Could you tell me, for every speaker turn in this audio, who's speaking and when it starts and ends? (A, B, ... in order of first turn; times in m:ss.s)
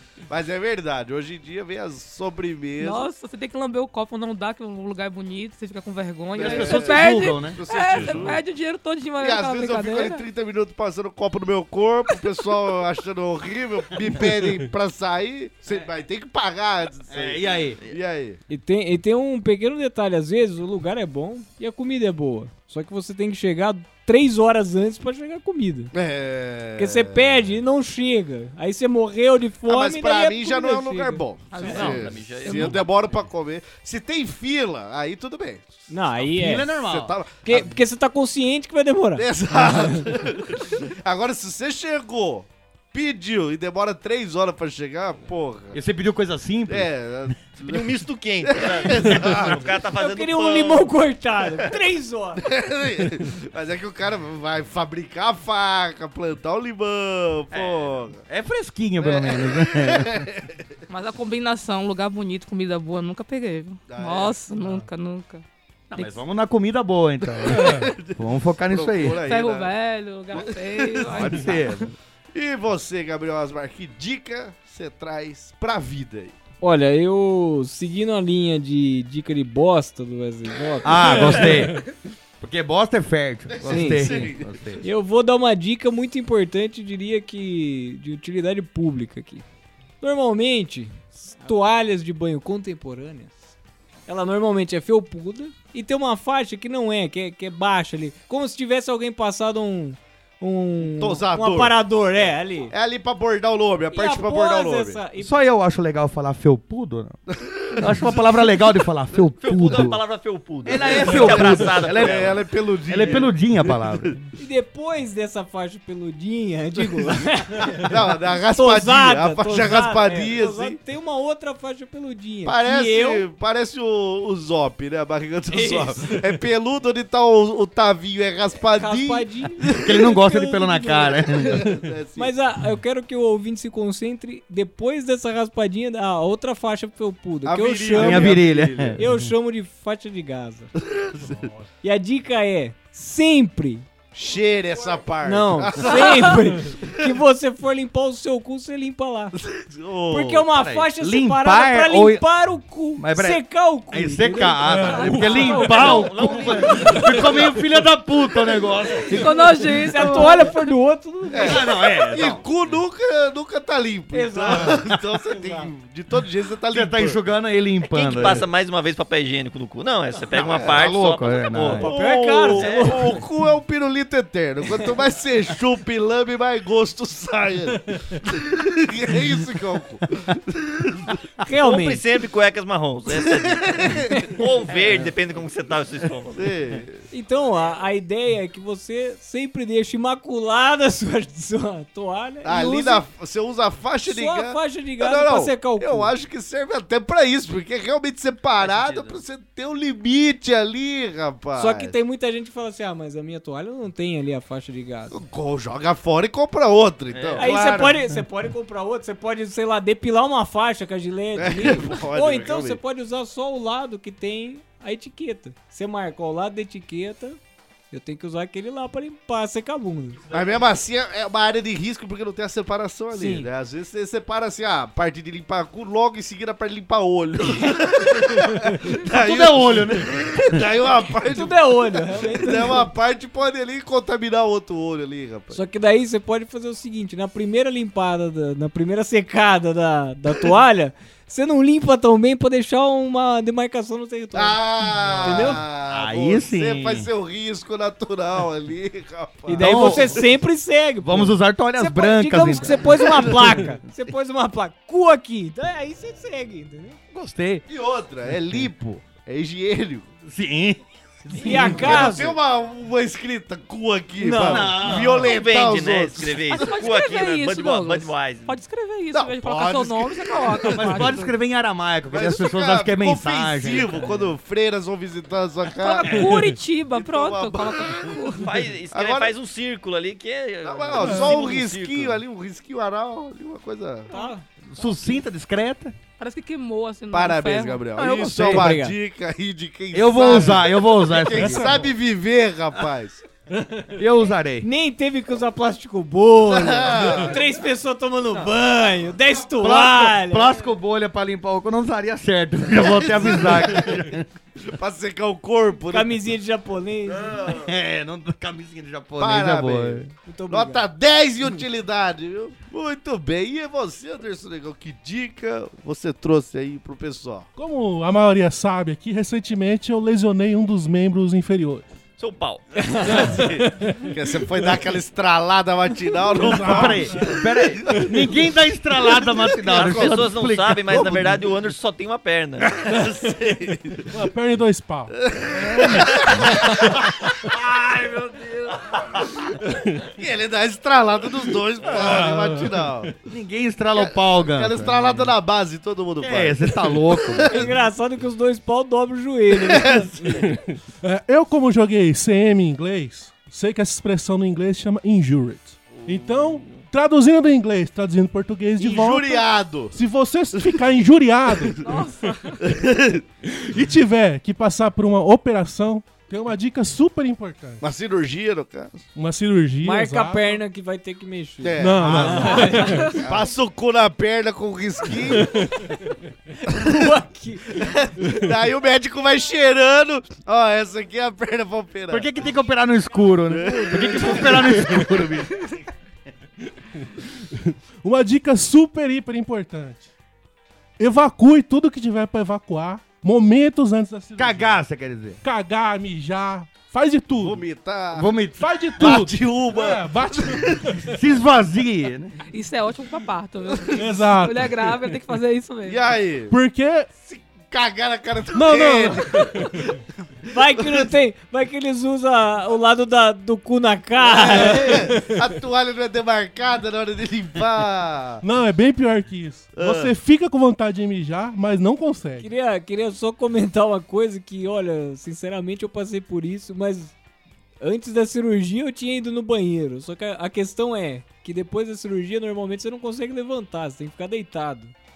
0:00.3-0:03.1 A
0:02.8-0:10.2 B
0:06.4-0:08.4 C
0:06.4-0:08.4 A
0:09.2-0:18.4 A
0:17.1-0:17.8 C
0:18.5-0:25.9 D
0:25.9-0:27.5 A
0:26.8-0:31.2 D
0:29.6-0:35.8 A
0:31.5-0:32.8 B
0:31.6-0:32.9 E
0:35.9-0:36.7 D
0:36.2-0:37.1 C
0:36.7-0:37.7 A
0:37.4-0:40.0 D
0:39.2-0:45.8 A
0:45.7-0:47.3 C
0:46.7-0:47.9 A
0:47.6-0:50.9 E
0:48.4-0:49.7 A
0:50.0-0:52.5 D
0:52.4-0:58.2 A
0:57.5-1:00.3 C
0:59.0-1:00.5 A
1:00.9-1:05.4 B
1:03.9-1:04.4 A
1:04.6-1:04.8 F
1:05.9-1:09.2 C
1:07.3-1:09.7 A
1:07.5-1:07.9 F
1:09.2-1:11.9 B
1:10.3-1:11.5 A
1:11.1-1:11.8 C
1:12.3-1:16.4 A
1:16.6-1:21.6 D
1:20.8-1:21.8 C
1:21.5-1:21.7 F
1:22.4-1:24.8 C
1:23.5-1:24.5 A
1:23.7-1:29.4 D
1:30.0-1:33.3 D
1:34.1-1:42.7 D
1:40.8-1:41.8 A
1:42.7-1:45.0 A
1:43.9-1:45.3 D
1:45.2-1:47.2 C
1:47.4-1:48.1 A
1:47.7-1:50.0 C
1:49.4-1:52.4 E
1:50.6-1:54.2 C
1:50.8-1:54.2 A
1:54.4-1:57.9 D
1:56.7-1:57.2 A
1:57.8-2:00.8 A
1:58.5-2:03.2 D
2:02.4-2:10.0 A
2:05.5-2:06.0 D
2:08.7-2:11.5 D
2:09.8-2:11.7 C
2:11.4-2:12.3 A
2:12.2-2:20.7 D
2:17.4-2:19.0 A
2:17.9-2:19.3 C
2:20.8-2:21.5 A
2:21.2-2:21.7 F
2:21.8-2:23.9 D
2:24.1-2:26.8 A
2:25.2-2:29.4 D
2:25.9-2:26.4 B
2:29.4-2:30.5 A
2:30.1-2:36.9 D
2:30.5-2:32.3 C
2:33.0-2:39.3 C
2:34.6-2:35.9 F
2:35.7-2:37.6 E
2:39.1-2:42.0 D
2:39.1-2:40.5 B
2:41.3-2:47.2 A
2:41.4-2:42.4 C
2:44.1-2:45.7 D
2:46.7-2:48.4 C
2:47.9-2:51.9 E
2:50.3-2:50.8 A
2:50.6-2:51.9 C
2:51.7-2:53.2 D
2:51.8-3:01.2 A
2:52.5-2:53.2 E
3:01.4-3:02.0 D
3:01.6-3:06.5 E
3:03.1-3:04.4 A
3:06.4-3:07.0 A
3:07.1-3:13.0 D
3:12.4-3:21.9 A
3:14.0-3:16.1 D
3:18.6-3:19.2 E
3:21.5-3:25.2 D
3:25.1-3:27.5 A
3:27.1-3:27.5 E
3:27.4-3:37.4 D
3:27.4-3:28.2 C
3:31.4-3:32.8 A
3:37.9-3:40.2 D
3:40.3-3:55.6 A
3:43.1-3:43.5 D
3:47.4-3:47.8 D
3:49.0-3:50.6 C
3:51.2-3:52.9 D
3:55.5-4:04.6 D
4:04.3-4:10.2 A
4:05.1-4:07.1 C
4:05.1-4:05.6 D
4:09.5-4:17.0 D
4:09.6-4:10.2 C
4:11.0-4:13.3 C
4:12.8-4:13.6 A
4:17.1-4:17.6 C
4:17.7-4:20.1 A
4:18.3-4:18.7 C
4:20.2-4:22.3 C
4:21.4-4:22.3 D
4:21.6-4:26.9 A
4:24.2-4:25.0 D
4:24.4-4:25.3 C
4:25.0-4:28.6 E
4:26.5-4:31.3 B
4:29.1-4:31.1 A
4:30.7-4:34.0 C
4:32.1-4:36.4 A
4:35.8-4:38.5 B
4:36.1-4:36.6 F
4:36.9-4:39.3 A
4:38.4-4:42.2 E
4:40.6-4:44.1 A
4:41.0-4:41.4 F
4:44.1-4:44.9 B
4:44.1-4:44.4 D
4:44.7-4:45.9 C
4:46.2-4:48.5 B
4:47.1-4:53.2 A
4:48.3-4:49.0 D
4:49.9-4:51.8 C
4:51.4-4:51.9 F
4:53.5-4:54.0 F
4:53.9-4:54.7 C
4:54.6-5:00.5 D
4:56.5-4:57.3 A
4:59.6-5:04.3 C
5:02.7-5:03.9 A
5:04.6-5:06.2 A
5:05.9-5:07.4 D
5:07.1-5:07.7 A
5:07.5-5:10.1 C
5:09.2-5:17.5 A
5:10.2-5:10.8 D
5:17.6-5:21.9 F
5:22.2-5:23.3 E
5:22.8-5:23.3 D
5:23.1-5:24.1 F
5:23.2-5:28.1 A
5:26.3-5:28.1 F
5:26.5-5:31.5 C
5:29.6-5:30.2 A
5:29.6-5:32.8 E
5:32.8-5:34.1 A
5:34.1-5:35.1 F
5:35.1-5:43.1 A
5:35.6-5:37.0 F
5:39.6-5:40.0 F
5:41.9-5:43.1 F
5:43.3-5:45.3 C
5:44.0-5:47.7 A
5:46.2-5:47.7 C
5:47.5-5:50.0 D
5:49.6-5:50.4 A
5:50.2-6:02.0 F
5:55.9-5:56.8 A
5:58.8-6:00.0 A
6:01.8-6:02.6 B
6:02.6-6:03.2 A
6:03.4-6:07.8 F
6:07.8-6:09.0 A
6:09.1-6:10.6 F
6:09.8-6:13.2 D
6:11.6-6:15.6 A
6:11.8-6:13.1 F
6:12.0-6:12.7 C
6:12.8-6:13.1 B
6:15.5-6:15.8 F
6:16.6-6:17.9 D
6:16.7-6:17.1 A
6:17.7-6:22.3 A
6:22.1-6:25.5 C
6:23.5-6:25.2 A
6:23.6-6:24.8 D
6:27.0-6:30.1 F
6:31.0-6:34.8 F
6:34.4-6:35.4 C
6:35.4-6:37.6 F
6:37.4-6:38.4 A
6:38.1-6:38.7 C
6:38.6-6:41.1 F
6:39.0-6:41.0 A
6:41.0-6:42.3 C
6:42.5-6:46.0 B
6:43.9-6:45.2 F
6:45.8-6:46.6 A
6:46.5-6:47.1 F
6:47.2-6:50.0 A
6:48.5-6:49.7 F
6:50.5-6:55.1 D
6:54.2-6:58.4 A
6:58.4-7:02.5 F
6:59.7-7:00.1 A
7:02.4-7:07.2 D
7:07.8-7:14.9 D